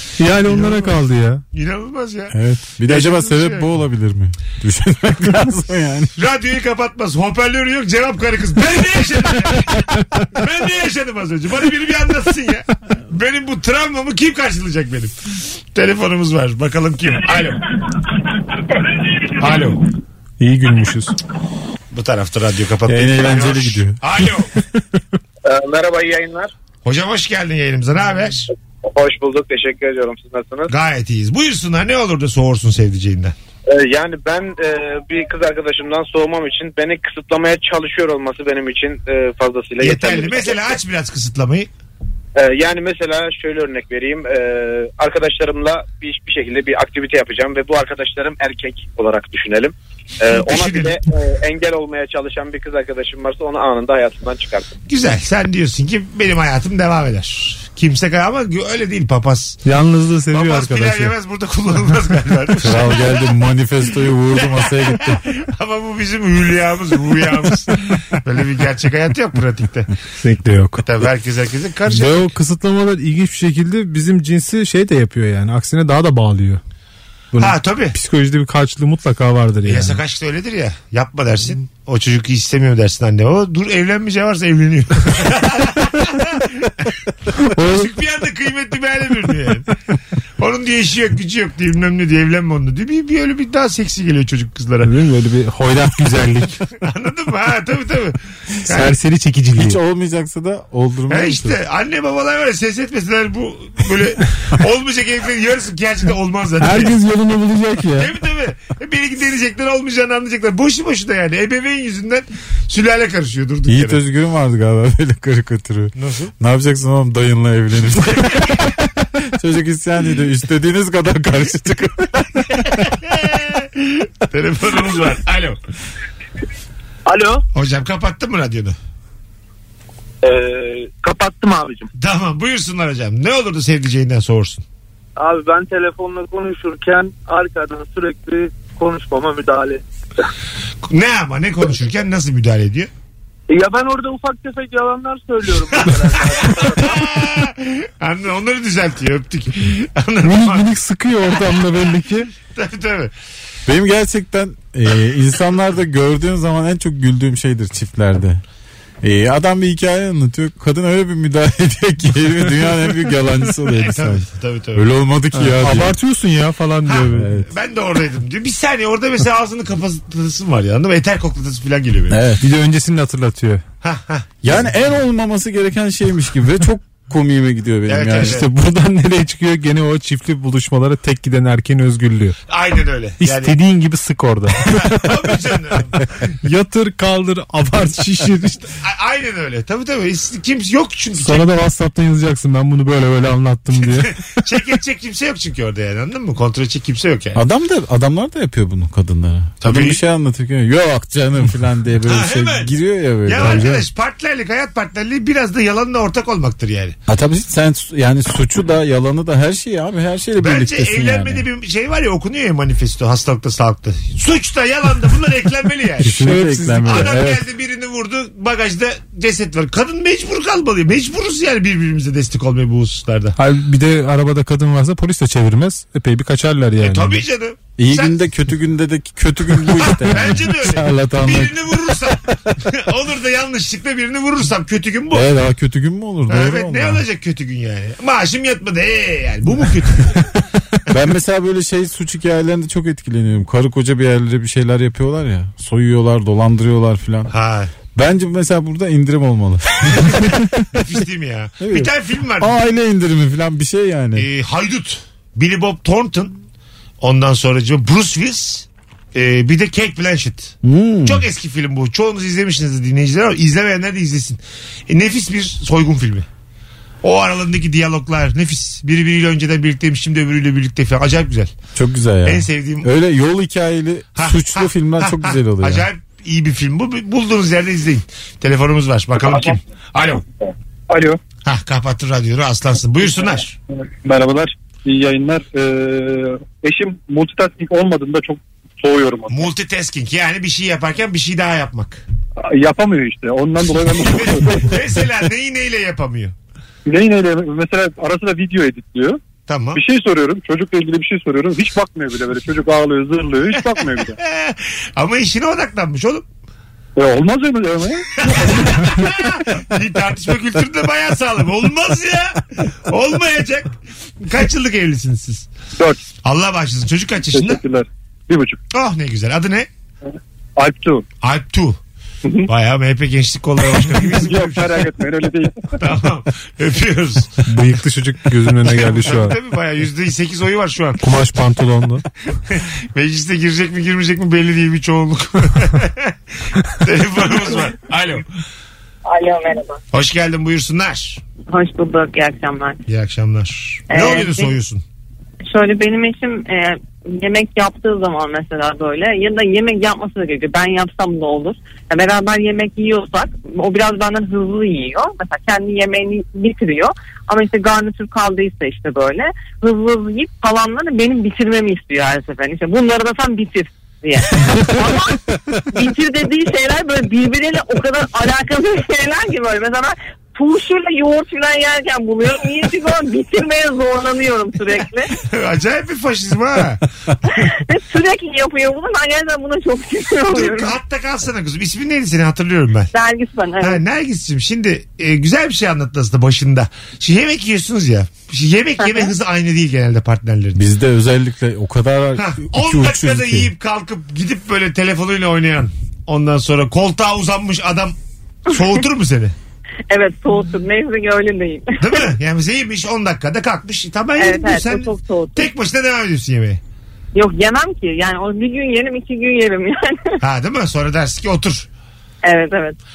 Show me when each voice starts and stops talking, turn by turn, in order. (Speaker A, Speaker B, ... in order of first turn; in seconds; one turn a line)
Speaker A: 0.2-1.4
Speaker B: 0.4-1.0
Speaker B: 1.5-3.7
Speaker C: 2.3-6.1
Speaker B: 6.2-15.2
Speaker B: 15.7-17.6
Speaker B: 19.3-19.8
Speaker A: 20.4-21.2
Speaker B: 21.9-24.5
Speaker C: 22.9-24.0
Speaker D: 25.4-26.5
Speaker B: 26.8-28.5
Speaker D: 28.8-30.7
Speaker B: 30.7-33.3
Speaker D: 33.7-40.7
Speaker B: 39.8-41.7
Speaker D: 42.4-54.7
Speaker B: 50.3-51.0
Speaker B: 54.9-59.6
Speaker A: 59.6-61.1
Speaker B: 60.3-63.1
Speaker C: 62.6-65.2
Speaker B: 64.4-69.9
Speaker A: 70.2-70.9
Speaker B: 70.8-72.3
Speaker A: 71.9-76.6
Speaker A: 77.3-80.0
Speaker B: 77.4-77.9
Speaker B: 79.6-86.9
Speaker A: 87.4-87.9
Speaker B: 87.6-89.7
Speaker B: 90.4-94.9
Speaker A: 94.8-96.6
Speaker B: 96.8-98.9
Speaker A: 98.7-99.8
Speaker C: 99.5-101.6
Speaker B: 101.1-107.0
Speaker A: 106.6-108.1
Speaker B: 107.9-114.0
Speaker C: 113.7-122.5
Speaker B: 116.0-116.3
Speaker B: 122.5-125.6
Speaker E: 127.0-127.4
Speaker B: 127.5-128.7
Speaker E: 130.2-131.9
Speaker B: 131.9-134.6
Speaker E: 135.2-139.8
Speaker B: 140.8-142.9
Speaker E: 143.5-147.1
Speaker B: 146.4-150.7
Speaker A: 150.2-152.3
Speaker B: 152.5-153.1
Speaker C: 153.7-158.4
Speaker C: 159.0-165.9
Speaker B: 163.7-164.8
Speaker A: 165.3-167.3
Speaker B: 166.8-172.2
Speaker C: 167.2-167.4
Speaker C: 172.1-172.4
Speaker A: 172.4-173.6
Speaker B: 173.8-174.7
Speaker C: 174.4-178.4
Speaker B: 177.9-178.5
Speaker A: 178.2-182.4
Speaker B: 182.5-183.6
Speaker A: 183.2-185.1
Speaker B: 184.7-186.0
Speaker A: 186.4-188.7
Speaker B: 188.8-191.5
Speaker A: 191.2-194.1
Speaker B: 193.8-197.4
Speaker C: 197.3-203.8
Speaker B: 199.6-200.0
Speaker B: 202.1-202.7
Speaker B: 203.2-207.0
Speaker A: 203.4-203.7
Speaker C: 207.1-211.4
Speaker B: 210.4-223.3
Speaker C: 216.0-217.4
Speaker A: 216.0-217.1
Speaker A: 223.4-227.2
Speaker B: 226.8-228.2
Speaker C: 227.8-231.6
Speaker B: 229.8-235.2
Speaker C: 235.1-237.0
Speaker B: 236.3-240.2
Speaker C: 240.9-247.3
Speaker B: 247.3-247.7
Speaker C: 247.9-250.7
Speaker B: 250.7-252.5
Speaker C: 251.6-254.3
Speaker B: 254.1-256.4
Speaker B: 257.0-266.3
Speaker C: 260.6-261.2
Speaker B: 267.0-271.5
Speaker C: 271.7-275.9
Speaker B: 272.2-272.9
Speaker B: 274.1-280.2
Speaker F: 280.9-281.2
Speaker B: 281.4-283.6
Speaker F: 284.0-289.4
Speaker B: 289.3-292.0
Speaker F: 292.5-294.8
Speaker B: 293.9-296.3
Speaker F: 296.9-299.2
Speaker B: 299.5-299.8
Speaker F: 299.7-304.2
Speaker B: 303.6-306.2
Speaker F: 306.9-308.9
Speaker B: 308.2-315.5
Speaker B: 316.2-317.6
Speaker F: 317.3-318.6
Speaker B: 318.7-319.7
Speaker F: 320.6-321.0
Speaker B: 321.2-321.8
Speaker B: 322.5-324.8
Speaker F: 324.1-325.8
Speaker B: 325.8-327.4
Speaker A: 327.4-329.4
Speaker B: 328.6-331.0
Speaker A: 331.0-332.0
Speaker B: 332.5-336.1
Speaker B: 336.7-338.2
Speaker G: 339.1-339.8
Speaker B: 339.9-341.2
Speaker G: 341.5-342.8
Speaker B: 342.9-344.8
Speaker G: 343.9-344.6
Speaker G: 345.5-365.2
Speaker G: 365.7-375.1
Speaker B: 375.2-376.8
Speaker G: 377.3-380.8
Speaker B: 380.3-382.9
Speaker G: 382.9-383.8
Speaker B: 383.6-390.6
Speaker G: 388.8-389.1
Speaker C: 390.6-393.5
Speaker B: 392.2-397.9
Speaker B: 398.5-399.3
Speaker G: 399.9-402.1
Speaker B: 401.8-406.6
Speaker G: 404.2-405.5
Speaker G: 407.1-410.2
Speaker B: 410.2-411.7
Speaker G: 412.2-412.8